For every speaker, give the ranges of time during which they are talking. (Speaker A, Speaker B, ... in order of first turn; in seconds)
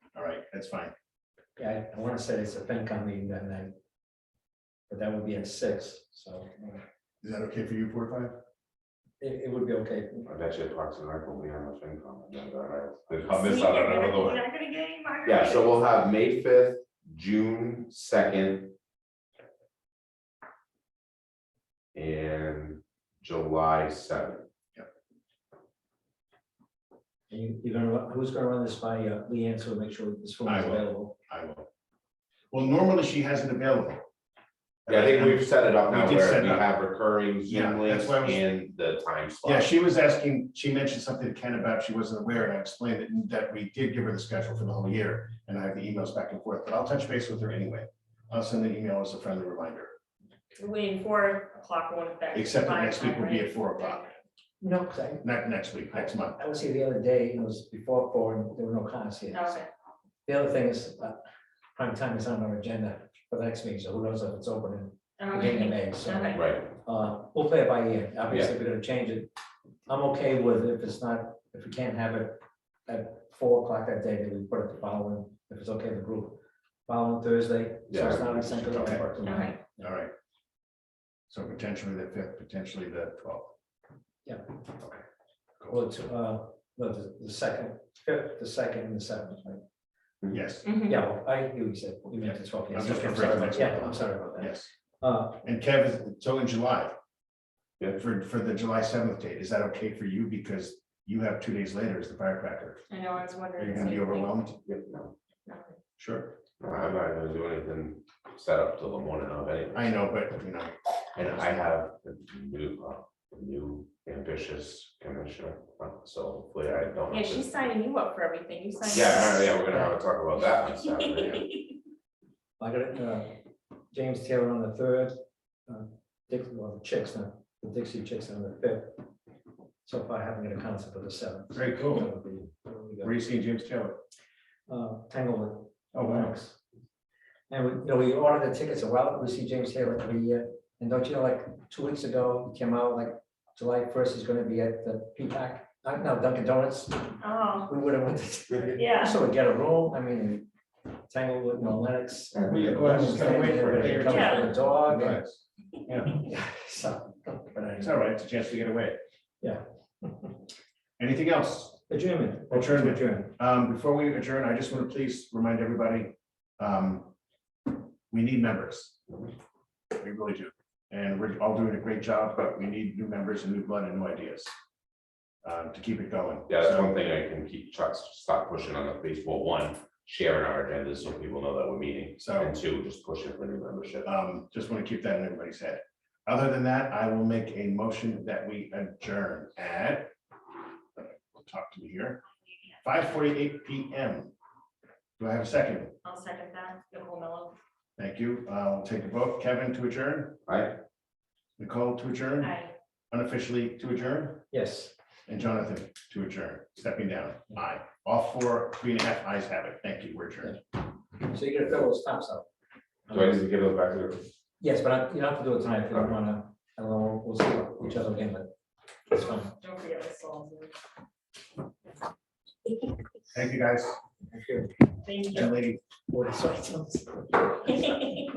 Speaker A: 0.1-0.9, 7.2-8.4, 30.4-31.6, 32.5-34.0, 34.9-36.6, 37.5-38.4, 39.4-49.9, 52.3-54.1, 55.2-56.4, 78.7-79.0, 79.8-80.1, 81.3-83.5, 90.2-90.7, 92.2-94.7, 95.4-96.9, 98.0-102.8, 103.6-104.6, 106.0-106.3, 109.7-110.7, 131.5-132.1, 133.0-134.0, 135.9-136.3, 152.4-156.2, 157.8-159.0, 161.0-161.8, 162.5-167.1, 168.1-169.1, 170.0-174.5, 175.4-176.9, 182.2-182.6, 184.0-190.1, 190.9-192.2, 192.8-194.3, 195.2-195.9, 198.0-200.4, 201.6-202.5, 203.1-204.4, 205.3-210.6, 223.3-224.0, 225.3-225.8
Speaker B: 1.6-3.7, 4.9-6.8, 9.2-10.3, 27.3-31.1, 54.6-55.2, 56.0-59.6, 60.2-61.1, 61.7-69.3, 69.9-79.9, 85.7-89.6, 90.8-95.4, 122.6-123.4, 123.9-129.0, 129.8-133.1, 134.7-136.6, 137.5-150.5, 151.1-155.2, 156.1-157.9, 159.4-160.3, 161.9-163.3, 204.5-204.9, 211.2-212.4, 213.1-213.3, 214.6-218.5, 219.1-219.5, 224.3-224.7, 226.1-227.5
Speaker C: 10.2-14.4, 15.2-18.7, 21.9-24.5, 34.9-39.7, 66.3-66.7, 68.3-68.5, 77.9-79.3, 104.7-105.1, 106.6-110.0, 111.1-117.6, 118.9-121.5, 152.3-152.7, 153.5-153.9, 176.5-184.1, 200.4-200.8, 213.1-214.3
Speaker D: 13.2-15.8, 50.6-54.1, 59.3-59.7, 65.2-66.4, 79.2-79.6, 90.6-91.0, 102.9-104.4, 105.5-105.8, 117.1-119.5, 147.2-147.7, 148.8-149.2, 154.0-154.5, 196.0-197.6, 202.4-202.7, 219.2-220.8, 225.0-225.5, 227.7-228.3